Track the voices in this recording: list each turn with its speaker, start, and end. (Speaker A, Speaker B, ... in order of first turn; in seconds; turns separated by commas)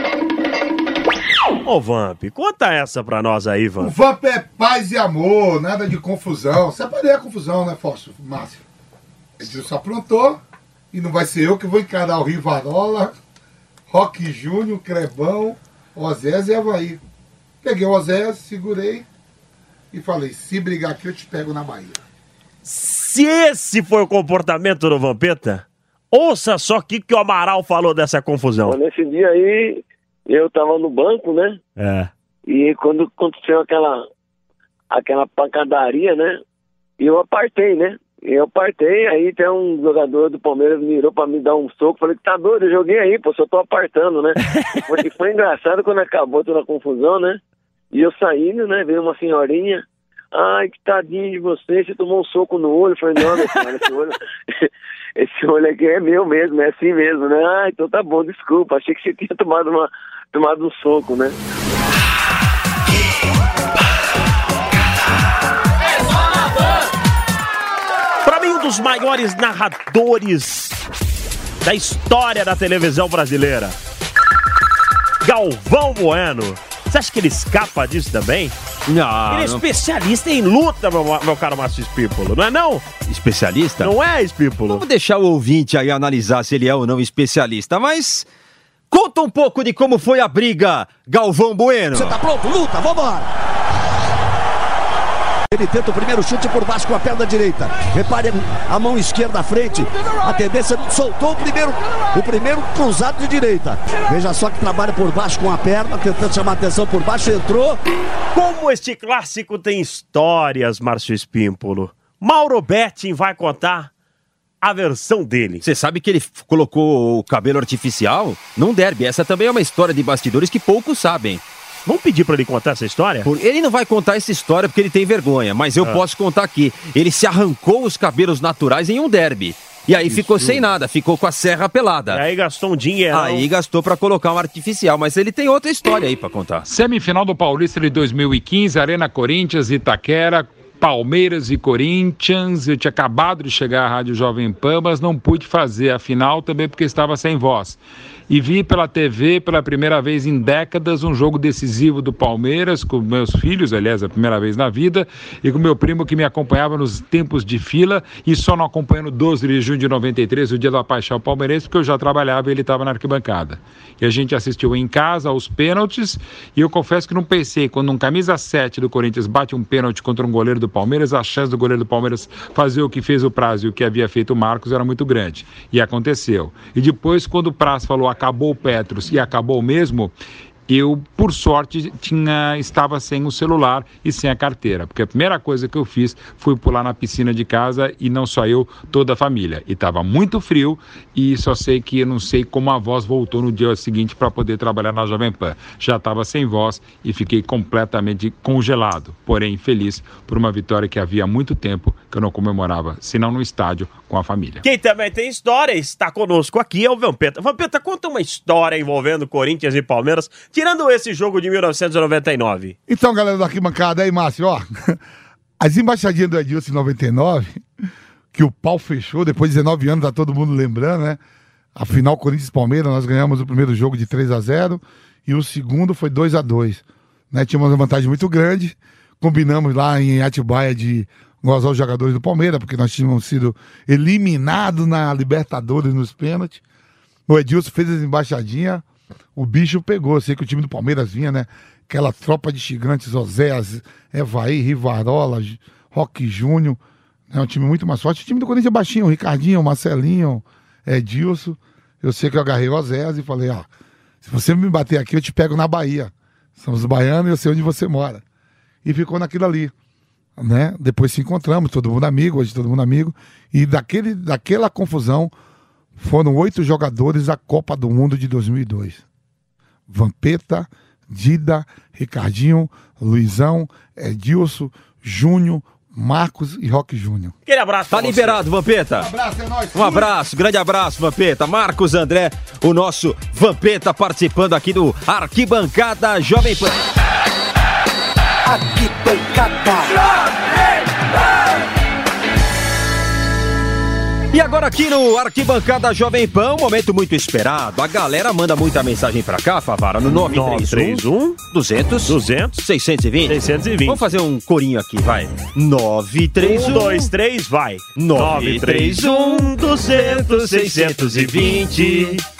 Speaker A: 1.6-3.9, Speaker B: 3.8-8.6, Speaker B: 9.4-10.4, Speaker B: 10.9-13.1, Speaker B: 13.9-17.0, Speaker B: 17.6-19.0, Speaker B: 19.9-22.0, Speaker A: 22.6-28.8, Speaker C: 28.6-31.6, Speaker A: 31.8-32.1, Speaker C: 32.5-34.0, Speaker C: 34.9-36.4, Speaker C: 37.0-47.4, Speaker C: 47.9-61.4, Speaker A: 68.2-70.7, Speaker A: 71.6-73.8, Speaker A: 75.2-78.5, Speaker D: 78.9-79.6, Speaker A: 79.3-82.8, Speaker D: 83.1-83.9, Speaker A: 83.8-84.8, Speaker D: 84.7-88.3, Speaker D: 88.9-92.1, Speaker E: 91.9-93.3, Speaker E: 95.5-107.8, Speaker A: 108.3-113.9, Speaker A: 114.6-115.6, Speaker D: 115.6-121.4, Speaker A: 121.8-123.3, Speaker D: 123.2-132.2, Speaker A: 130.0-130.8, Speaker A: 132.1-133.5, Speaker D: 133.1-136.7, Speaker F: 136.7-180.1, Speaker F: 180.7-204.6, Speaker A: 204.6-212.7, Speaker B: 212.9-215.0, Speaker B: 215.6-217.6, Speaker B: 218.3-221.2, Speaker B: 221.8-236.6, Speaker B: 237.3-238.8, Speaker B: 239.3-246.8, Speaker B: 247.3-253.7, Speaker B: 254.2-258.2, Speaker B: 258.8-259.7, Speaker B: 260.4-265.3, Speaker B: 266.0-269.0, Speaker B: 269.9-277.3, Speaker A: 277.4-278.4, Speaker D: 277.9-279.1, Speaker B: 278.9-280.1, Speaker D: 279.7-286.8, Speaker D: 294.3-307.1, Speaker A: 300.1-301.4, Speaker A: 302.1-302.6, Speaker A: 303.2-304.0, Speaker A: 306.4-312.2, Speaker D: 307.9-312.2